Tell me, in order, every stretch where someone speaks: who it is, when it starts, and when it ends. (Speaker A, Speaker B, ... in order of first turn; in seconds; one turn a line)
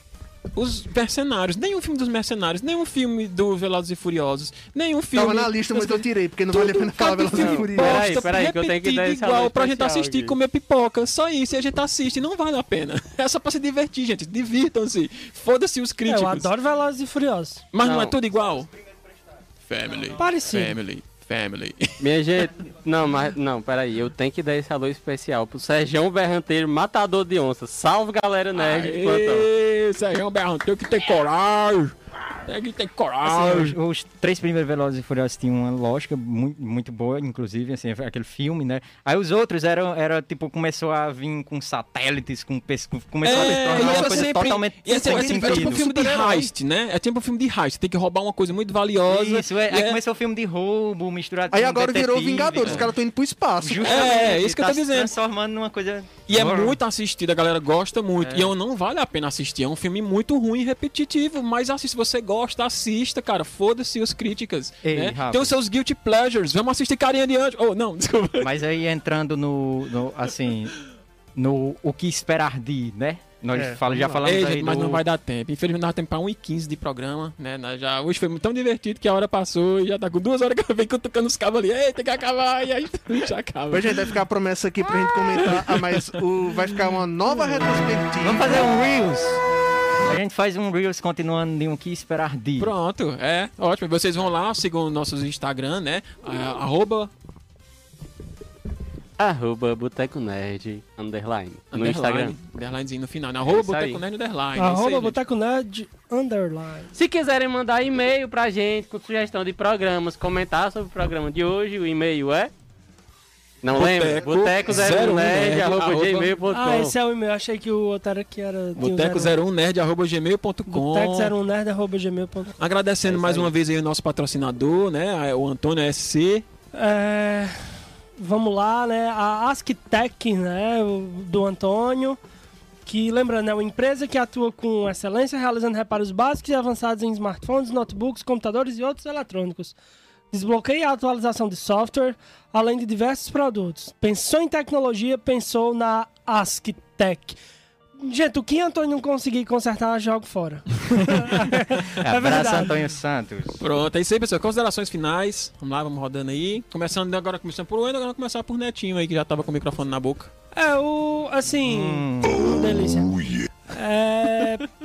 Speaker A: 0.5-16.5
Speaker B: 5.2-8.3
Speaker C: 7.3-10.4
Speaker D: 16.1-17.7
Speaker A: 17.7-18.7
Speaker C: 17.8-18.2
Speaker A: 19.6-22.1
Speaker D: 20.2-20.8
Speaker C: 22.0-29.5
Speaker A: 28.6-33.8
Speaker E: 33.2-45.9
Speaker A: 43.2-50.0
Speaker B: 43.3-44.3
Speaker B: 44.9-46.5
Speaker E: 49.1-52.9
Speaker B: 51.5-54.3
Speaker A: 52.6-52.9
Speaker E: 53.6-56.8
Speaker A: 53.8-55.1
Speaker A: 56.3-68.5
Speaker E: 58.2-58.5
Speaker E: 64.8-65.6
Speaker E: 68.4-70.8
Speaker E: 71.4-75.0
Speaker B: 73.5-74.3
Speaker A: 74.2-84.1
Speaker B: 83.7-88.7
Speaker A: 85.3-86.2
Speaker E: 88.2-89.4
Speaker E: 90.1-92.7
Speaker A: 92.6-97.1
Speaker C: 99.2-102.4
Speaker A: 101.7-105.2
Speaker C: 103.5-104.0
Speaker D: 104.6-106.9
Speaker C: 106.9-112.5
Speaker C: 113.6-117.0
Speaker A: 113.7-116.3
Speaker D: 116.5-119.3
Speaker A: 118.8-121.3
Speaker D: 120.7-122.5
Speaker A: 122.6-126.5
Speaker C: 123.1-123.5
Speaker D: 126.7-132.2
Speaker D: 132.8-139.8
Speaker D: 140.3-147.4
Speaker D: 148.0-152.8
Speaker E: 151.9-153.6
Speaker A: 153.6-160.3
Speaker D: 160.6-164.7
Speaker E: 161.7-162.4